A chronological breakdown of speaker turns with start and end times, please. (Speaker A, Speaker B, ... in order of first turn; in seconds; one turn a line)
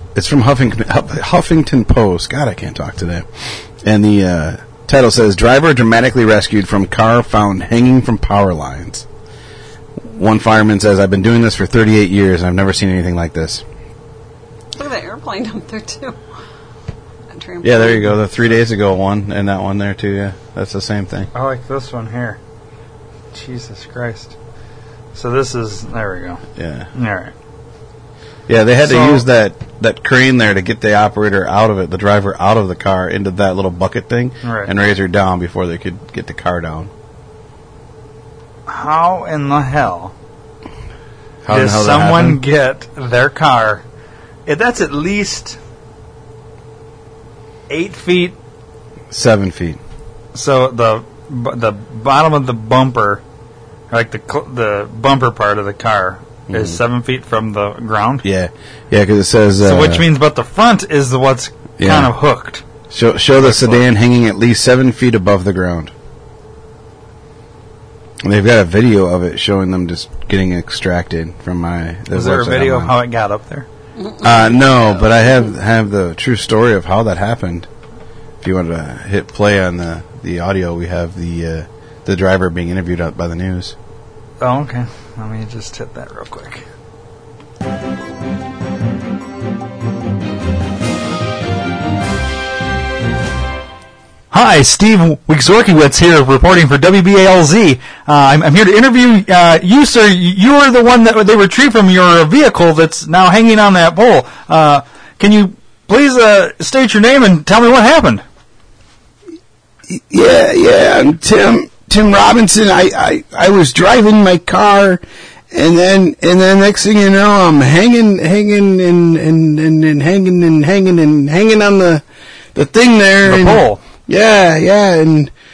Speaker A: 0.1-9.1
Speaker A: 10.0-13.6
Speaker B: 14.8-16.2
Speaker B: 17.3-18.2
Speaker A: 17.6-21.3
Speaker C: 21.3-22.4
Speaker C: 23.3-24.4
Speaker C: 25.1-26.4
Speaker A: 26.6-26.9
Speaker C: 26.9-27.3
Speaker A: 28.5-36.9
Speaker C: 28.8-29.2
Speaker C: 34.4-34.7
Speaker C: 38.7-40.1
Speaker A: 41.4-42.4
Speaker C: 41.5-43.8
Speaker C: 44.5-45.6
Speaker C: 47.7-48.4
Speaker A: 49.1-49.8
Speaker C: 50.3-53.2
Speaker C: 53.9-58.2
Speaker A: 56.5-56.8
Speaker A: 58.2-60.0
Speaker C: 59.6-62.6
Speaker A: 61.8-62.1
Speaker A: 62.9-65.9
Speaker C: 63.3-63.9
Speaker A: 68.2-72.9
Speaker C: 72.1-73.7
Speaker B: 74.0-75.1
Speaker A: 74.2-77.7
Speaker A: 78.4-83.7
Speaker C: 84.4-86.6
Speaker C: 94.3-108.2
Speaker A: 109.9-122.0
Speaker A: 122.5-125.3
Speaker C: 123.2-123.8